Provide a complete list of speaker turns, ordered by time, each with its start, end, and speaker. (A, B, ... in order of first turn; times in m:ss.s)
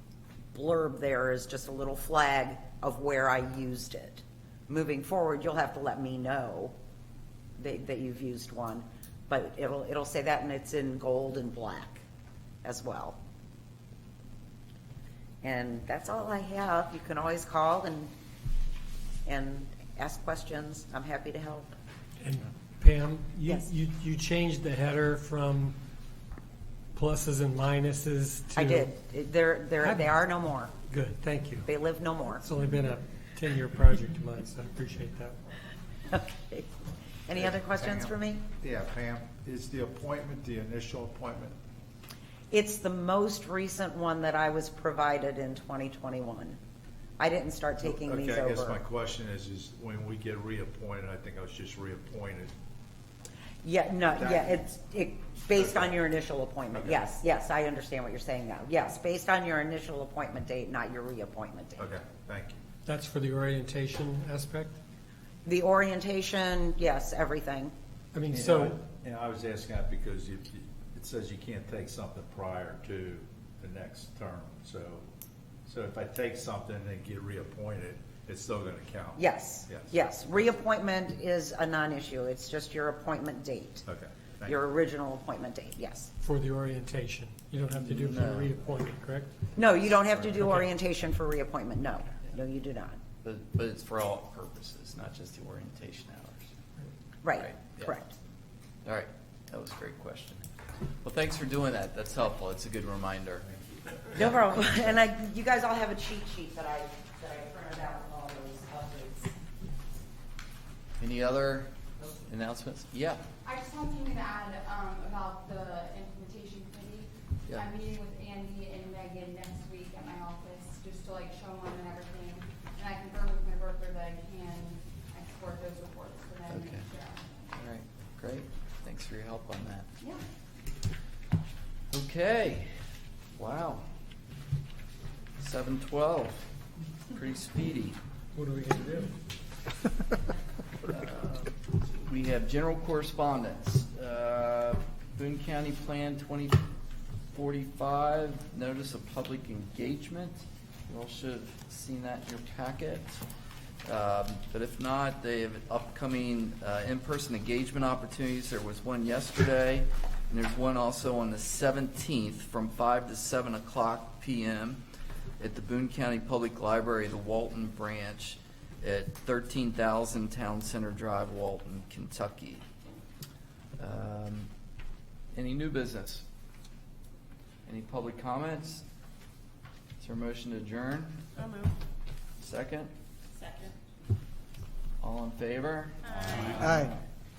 0:00.5-0:06.7 A
0:07.6-0:12.0 A
0:12.6-0:13.2 A
0:15.4-0:18.1 A
0:19.2-0:21.8 A
0:22.2-0:25.8 B
0:26.9-0:28.9 B
0:28.5-0:30.7 A
0:29.8-0:30.2 B
0:30.8-0:31.7 B
0:31.6-0:32.4 A
0:32.4-0:35.4 B
0:36.1-0:36.7 A
0:37.2-0:38.4 A
0:37.3-0:41.6 C
0:42.5-0:46.6 A
0:47.2-0:48.8 A
0:47.8-0:52.5 C
0:53.6-1:01.9 A
0:54.1-0:54.6 C
0:55.5-0:56.0 C
0:56.7-0:57.0 C
1:01.8-1:02.6 C
1:02.8-1:04.8 B
1:05.4-1:07.7 A
1:08.1-1:08.7 B
1:08.3-1:15.1 C
1:15.6-1:19.9 C
1:19.2-1:23.9 A
1:23.8-1:24.6 C
1:24.4-1:26.1 A
1:26.2-1:29.5 B
1:27.7-1:28.5 D
1:29.5-1:33.0 A
1:33.2-1:36.5 D
1:37.2-1:38.1 A
1:37.3-1:38.0 D
1:38.8-1:40.5 D
1:41.0-1:44.4 D
1:44.1-1:49.4 A
1:51.0-1:53.2 D
1:53.4-2:07.5 E
2:06.5-2:06.8 D
2:07.5-2:09.9 D
2:11.9-2:12.7 D
2:13.4-2:13.8 D
2:15.4-2:16.5 D
2:17.1-2:18.0 D
2:18.3-2:19.2 B
2:20.8-2:26.7 D
2:27.3-2:33.2 D
2:33.8-2:44.8 D
2:45.4-2:52.6 D
2:53.8-2:54.5 D
2:55.3-2:56.2 D
2:57.6-2:58.8 D
3:00.0-3:01.2 D
3:02.4-3:02.9 D
3:05.0-3:07.0 D